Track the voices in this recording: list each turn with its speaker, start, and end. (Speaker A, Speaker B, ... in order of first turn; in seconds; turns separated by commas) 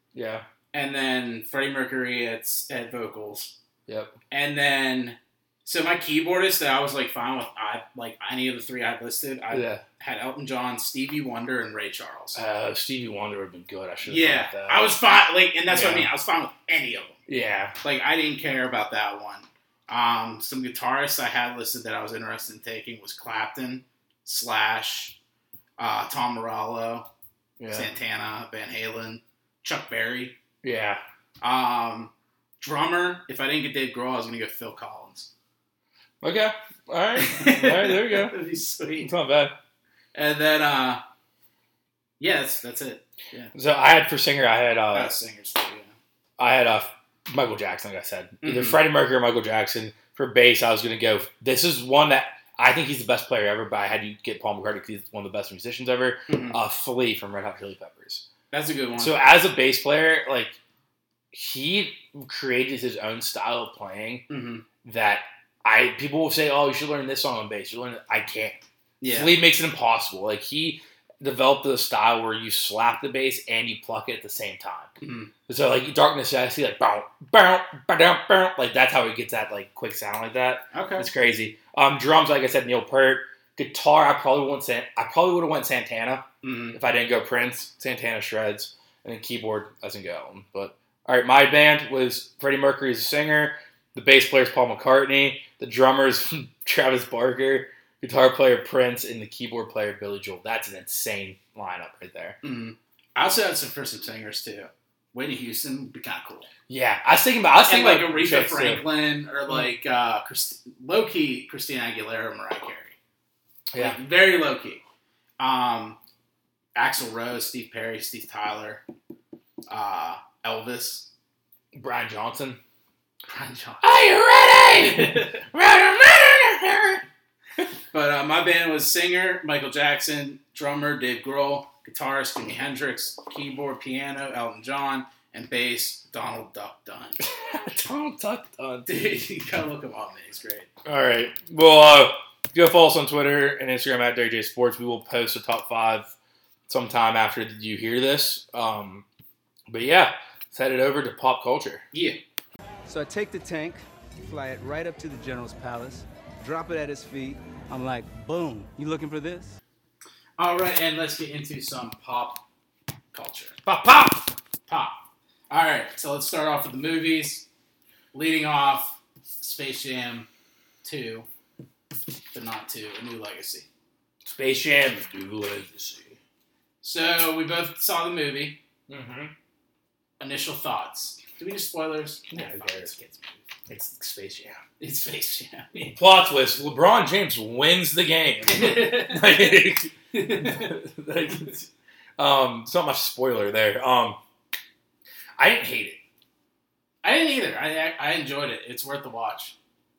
Speaker A: 0.1-0.5, Speaker B: 0.7-3.5, Speaker A: 3.9-4.2, Speaker B: 4.3-12.4, Speaker A: 9.5-9.8, Speaker A: 12.3-14.9, Speaker B: 14.1-17.2, Speaker A: 15.7-16.1, Speaker A: 17.3-17.8, Speaker B: 17.8-25.2, Speaker B: 25.8-27.1, Speaker A: 27.6-27.9, Speaker B: 27.7-30.4, Speaker A: 30.6-31.0, Speaker B: 31.4-35.3, Speaker A: 36.2-38.4, Speaker B: 37.2-39.1, Speaker A: 39.0-39.6, Speaker B: 40.1-41.0, Speaker B: 42.2-43.5, Speaker A: 43.5-45.1, Speaker B: 44.9-45.9, Speaker A: 46.4-58.3, Speaker B: 48.4-48.8, Speaker B: 56.3-56.6, Speaker B: 58.5-59.2, Speaker A: 59.0-60.6, Speaker A: 61.3-64.3, Speaker B: 64.3-64.7, Speaker A: 64.8-74.9, Speaker B: 69.0-69.4, Speaker B: 75.0-75.3, Speaker A: 75.5-102.4, Speaker B: 80.7-81.1, Speaker B: 86.4-86.8, Speaker B: 102.4-106.5, Speaker A: 106.7-108.8, Speaker B: 107.7-113.0, Speaker A: 113.7-114.0, Speaker B: 113.8-114.8, Speaker B: 115.4-116.0, Speaker B: 116.8-118.8, Speaker B: 119.7-121.1, Speaker A: 121.7-122.6, Speaker B: 123.3-123.9, Speaker A: 123.8-127.0, Speaker B: 124.8-125.3, Speaker B: 127.9-137.2, Speaker A: 137.2-138.9, Speaker B: 138.9-140.7, Speaker A: 140.8-146.1, Speaker A: 146.7-149.1, Speaker A: 149.7-151.8, Speaker B: 151.9-152.2, Speaker C: 152.9-159.6, Speaker B: 160.4-162.4, Speaker B: 163.1-163.6, Speaker A: 163.7-164.3, Speaker B: 164.7-167.5, Speaker B: 168.1-170.3, Speaker B: 170.8-171.3, Speaker B: 172.3-173.7, Speaker A: 174.2-176.2, Speaker B: 176.8-178.6, Speaker A: 178.9-179.3, Speaker B: 180.2-183.4, Speaker A: 182.3-182.9, Speaker A: 183.7-184.6, Speaker B: 184.8-185.9, Speaker A: 185.9-194.2, Speaker B: 188.5-190.8, Speaker A: 195.4-196.0, Speaker B: 197.0-199.6